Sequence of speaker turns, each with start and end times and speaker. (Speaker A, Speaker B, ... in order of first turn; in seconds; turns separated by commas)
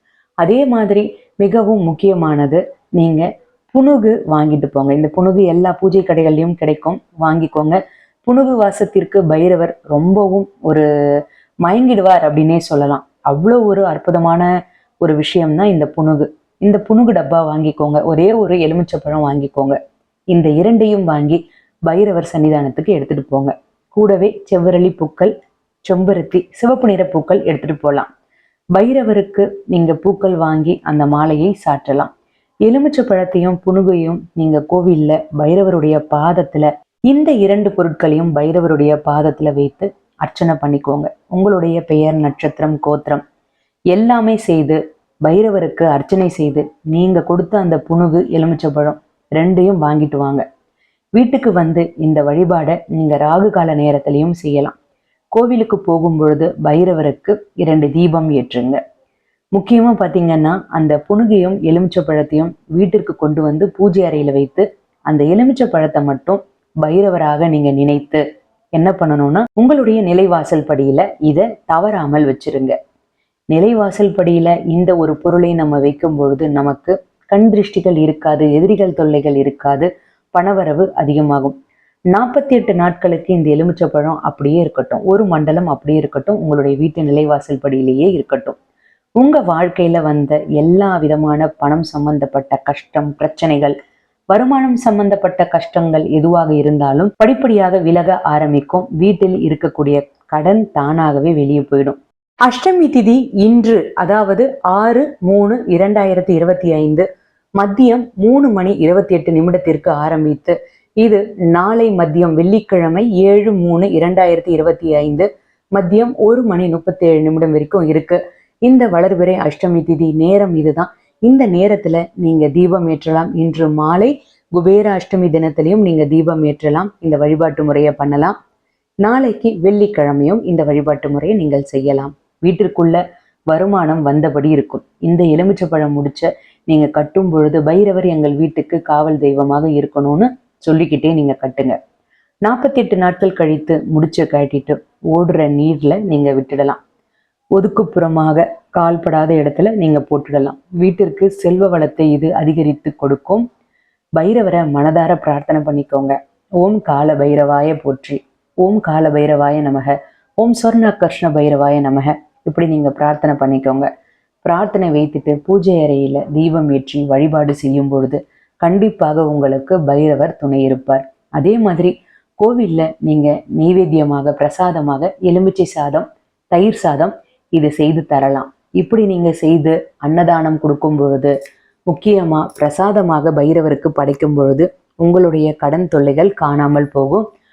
Speaker A: 0.4-10.8, Speaker A: 11.6-14.5, Speaker A: 15.0-19.8, Speaker A: 20.3-25.3, Speaker A: 25.9-28.1, Speaker A: 28.7-32.1, Speaker A: 32.6-43.2, Speaker A: 43.9-50.4, Speaker A: 51.2-54.7, Speaker A: 55.3-58.8, Speaker A: 59.5-68.2, Speaker A: 68.8-72.7, Speaker A: 73.5-81.5, Speaker A: 82.1-88.5, Speaker A: 89.2-93.7, Speaker A: 94.3-107.0, Speaker A: 107.6-128.3, Speaker A: 129.0-141.8, Speaker A: 142.4-146.8, Speaker A: 147.6-153.4, Speaker A: 154.2-163.9, Speaker A: 164.4-181.3, Speaker A: 181.9-187.2